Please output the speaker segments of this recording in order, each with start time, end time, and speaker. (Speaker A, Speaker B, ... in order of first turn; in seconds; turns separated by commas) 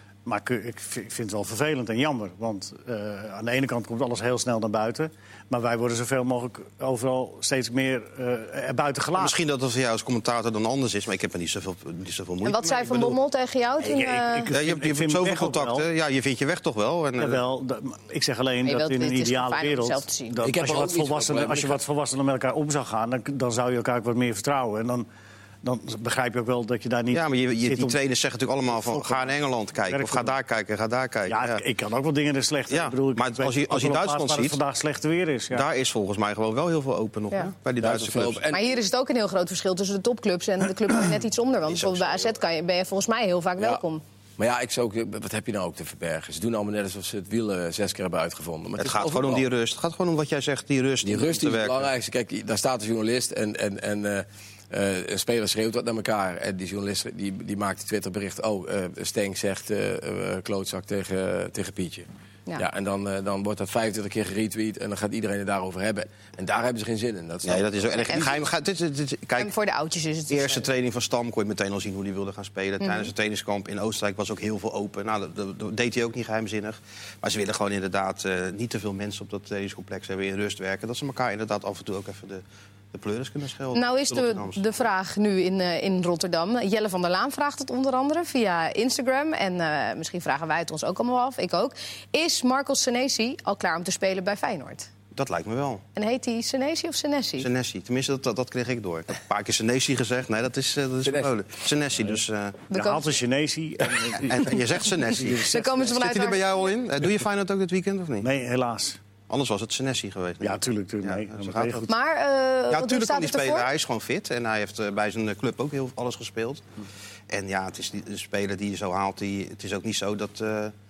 Speaker A: 0.2-9.3, Speaker B: 9.2-13.2, Speaker C: 12.4-14.5, Speaker A: 13.8-15.8, Speaker B: 14.5-17.4, Speaker A: 17.2-25.1, Speaker C: 18.6-20.4, Speaker D: 20.4-21.8, Speaker A: 25.6-27.9, Speaker B: 27.1-31.6, Speaker A: 28.7-29.3, Speaker A: 29.9-30.3, Speaker A: 31.3-35.6, Speaker B: 32.7-34.6, Speaker B: 35.5-38.4, Speaker D: 37.8-38.7, Speaker C: 38.5-44.0, Speaker B: 41.7-42.4, Speaker D: 44.4-49.5, Speaker B: 48.8-51.9, Speaker D: 51.0-68.3, Speaker B: 67.4-69.5, Speaker C: 68.0-68.3, Speaker C: 69.4-70.7, Speaker B: 70.3-84.6, Speaker C: 72.8-73.1, Speaker C: 83.7-94.9, Speaker B: 95.1-95.8, Speaker C: 95.9-97.5, Speaker B: 97.4-102.6, Speaker D: 101.0-101.3, Speaker C: 102.7-103.1, Speaker A: 102.7-105.8, Speaker B: 104.1-108.3, Speaker C: 105.4-106.7, Speaker A: 108.2-109.0, Speaker B: 109.3-111.9, Speaker A: 110.4-111.9, Speaker C: 111.9-113.7, Speaker B: 112.7-116.6, Speaker B: 117.3-120.7